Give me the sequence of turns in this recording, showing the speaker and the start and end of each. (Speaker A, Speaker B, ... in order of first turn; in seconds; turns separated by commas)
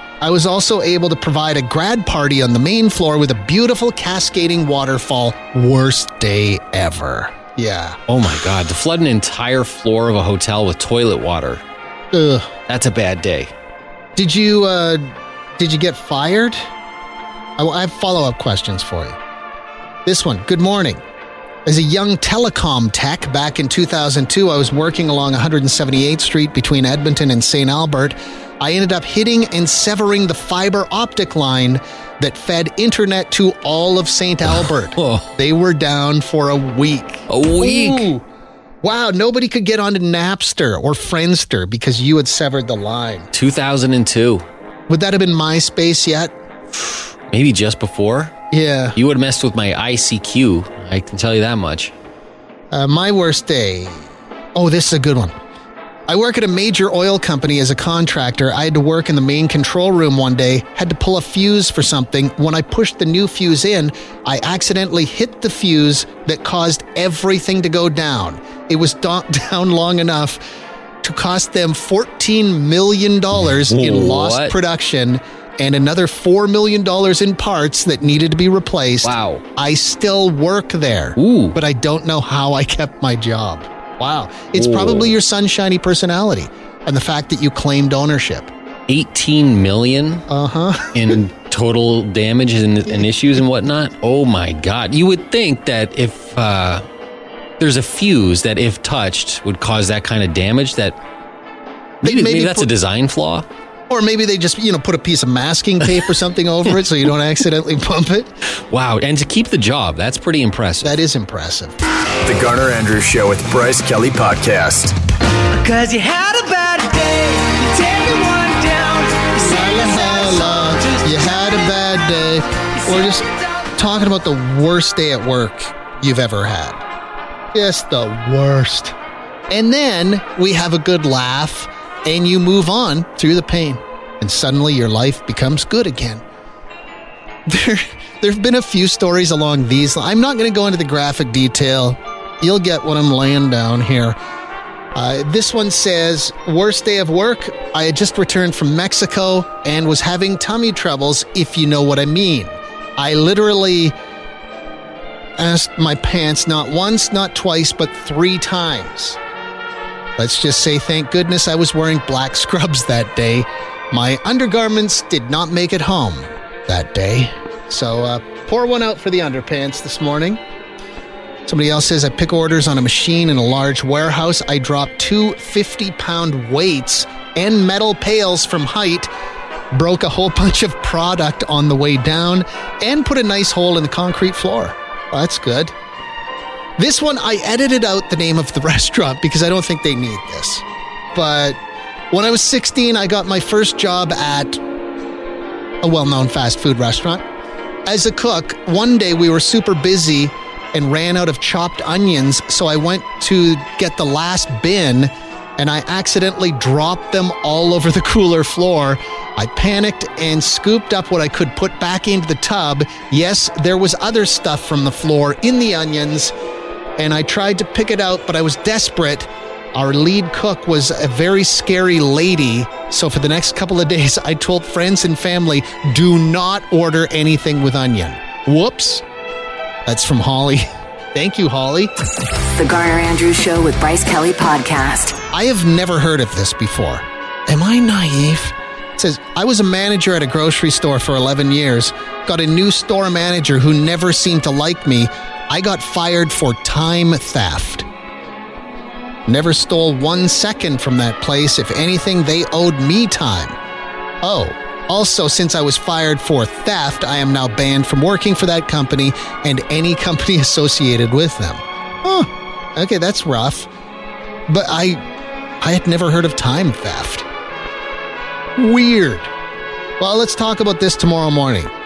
Speaker A: 0.2-8.0, Speaker B: 8.1-11.6, Speaker A: 12.1-12.5, Speaker B: 12.7-13.5, Speaker A: 14.2-16.6, Speaker A: 17.6-19.2, Speaker A: 20.0-21.0, Speaker A: 21.6-38.2, Speaker B: 34.4-35.3, Speaker B: 37.3-38.1, Speaker A: 38.8-43.3, Speaker B: 43.3-44.4, Speaker A: 44.9-46.3, Speaker B: 46.7-48.3, Speaker A: 48.5-49.0, Speaker B: 48.9-51.9, Speaker A: 52.7-55.3, Speaker A: 56.1-70.4, Speaker A: 71.0-88.5, Speaker B: 73.3-74.6, Speaker B: 79.0-79.4, Speaker B: 81.2-81.6, Speaker B: 84.5-85.2, Speaker B: 88.9-90.2, Speaker A: 90.3-91.2, Speaker B: 90.9-96.8, Speaker B: 97.6-101.0, Speaker A: 102.0-102.7, Speaker B: 102.0-103.5, Speaker A: 103.9-108.3, Speaker B: 108.7-111.0, Speaker A: 110.8-111.8, Speaker C: 112.2-114.9, Speaker D: 115.6-119.6, Speaker A: 119.4-126.8, Speaker A: 127.5-128.9, Speaker A: 129.5-136.2, Speaker A: 137.5-144.2, Speaker A: 144.9-153.9, Speaker A: 155.4-159.2, Speaker A: 160.2-170.4, Speaker A: 171.4-179.1, Speaker A: 179.7-185.7, Speaker A: 186.8-191.6, Speaker A: 192.1-194.6, Speaker A: 195.8-197.2, Speaker A: 197.8-216.3, Speaker A: 217.0-229.0, Speaker A: 229.8-231.9, Speaker E: 232.6-235.2, Speaker A: 235.3-247.8, Speaker A: 249.2-253.6, Speaker A: 254.2-263.7, Speaker A: 264.5-265.0, Speaker A: 265.6-267.3, Speaker A: 268.6-269.3, Speaker A: 270.0-271.7